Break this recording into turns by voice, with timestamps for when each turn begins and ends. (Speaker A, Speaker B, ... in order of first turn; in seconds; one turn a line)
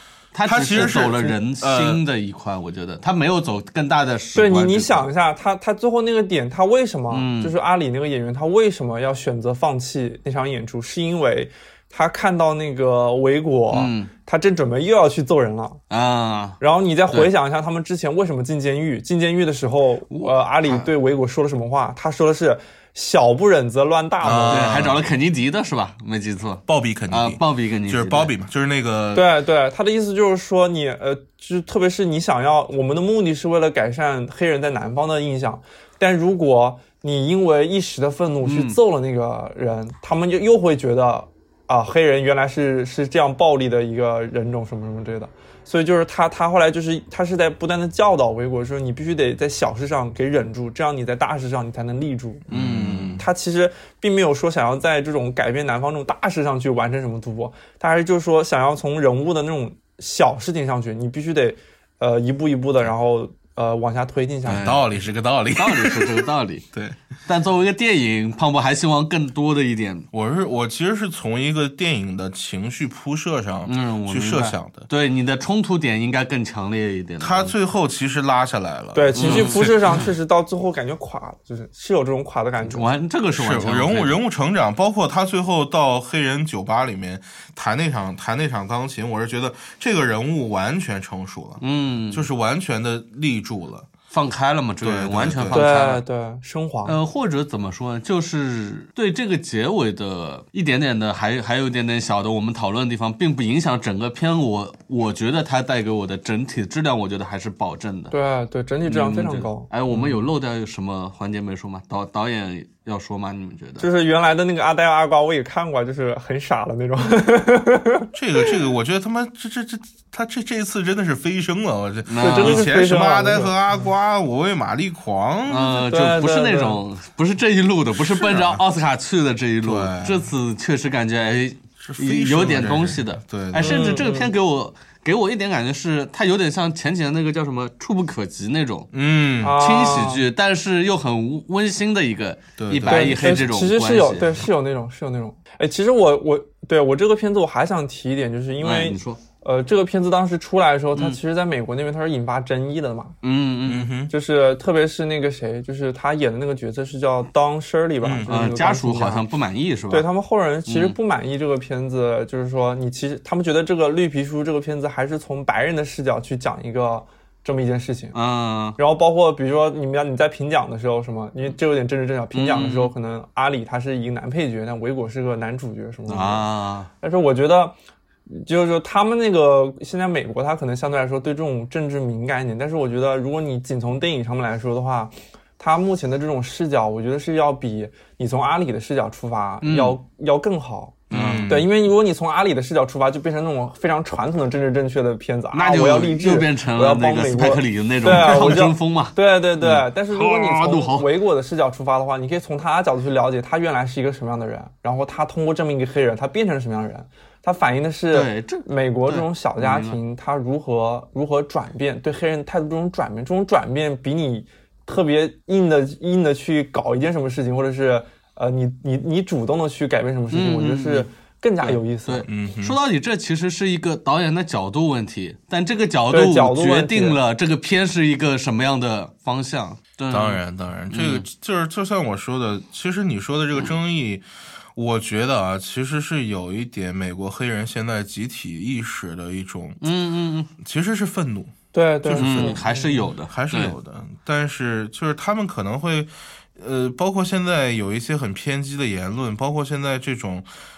Speaker A: 0.3-5.1
Speaker B: 0.5-2.0
Speaker C: 0.8-1.1
Speaker C: 4.3-15.8
Speaker A: 7.1-7.5
Speaker A: 13.7-14.1
Speaker A: 15.9-16.6
Speaker C: 16.6-24.8
Speaker A: 20.1-20.9
Speaker B: 24.2-25.0
Speaker A: 24.5-28.3
Speaker B: 26.7-29.3
Speaker C: 29.1-52.5
Speaker A: 38.4-38.8
Speaker A: 52.5-53.2
Speaker B: 52.5-53.2
Speaker C: 53.2-64.8
Speaker A: 64.5-64.8
Speaker B: 64.6-67.0
Speaker A: 65.5-66.7
Speaker A: 67.3-70.1
Speaker B: 70.1-74.9
Speaker A: 73.7-77.5
Speaker B: 77.2-80.0
Speaker C: 78.9-82.9
Speaker A: 79.2-79.7
Speaker A: 82.6-84.2
Speaker B: 83.4-93.9
Speaker A: 91.6-92.3
Speaker A: 94.1-96.0
Speaker B: 94.8-95.6
Speaker C: 95.5-97.0
Speaker A: 96.8-108.1
Speaker C: 108.1-110.1
Speaker A: 108.8-113.9
Speaker C: 113.8-118.5
Speaker B: 118.1-125.9
Speaker A: 122.1-122.7
Speaker C: 122.2-123.6
Speaker A: 125.5-138.9
Speaker C: 125.9-126.8
Speaker B: 128.0-128.6
Speaker B: 129.6-130.3
Speaker B: 131.8-133.9
Speaker C: 133.6-134.3
Speaker B: 138.9-139.6
Speaker C: 139.4-140.2
Speaker A: 139.6-144.4
Speaker B: 142.6-143.3
Speaker C: 142.9-153.1
Speaker A: 148.6-149.2
Speaker A: 153.2-153.9
Speaker B: 153.6-154.1
Speaker C: 154.1-159.3
Speaker B: 158.0-158.3
Speaker A: 158.3-160.1
Speaker C: 159.9-168.2
Speaker A: 160.7-161.0
Speaker A: 168.1-168.8
Speaker C: 168.8-176.5
Speaker A: 172.3-172.9
Speaker A: 176.1-176.9
Speaker C: 177.0-177.8
Speaker C: 178.3-222.3
Speaker A: 189.6-190.0
Speaker A: 191.1-191.6
Speaker B: 191.1-191.7
Speaker A: 195.5-201.2
Speaker A: 208.1-210.0
Speaker A: 220.3-221.1
Speaker A: 221.6-231.2
Speaker B: 222.3-222.8
Speaker C: 226.1-227.2
Speaker B: 230.1-234.2
Speaker B: 234.8-239.8
Speaker A: 239.8-240.5
Speaker B: 240.6-242.7
Speaker C: 241.7-243.1
Speaker A: 242.1-243.8
Speaker B: 243.3-250.5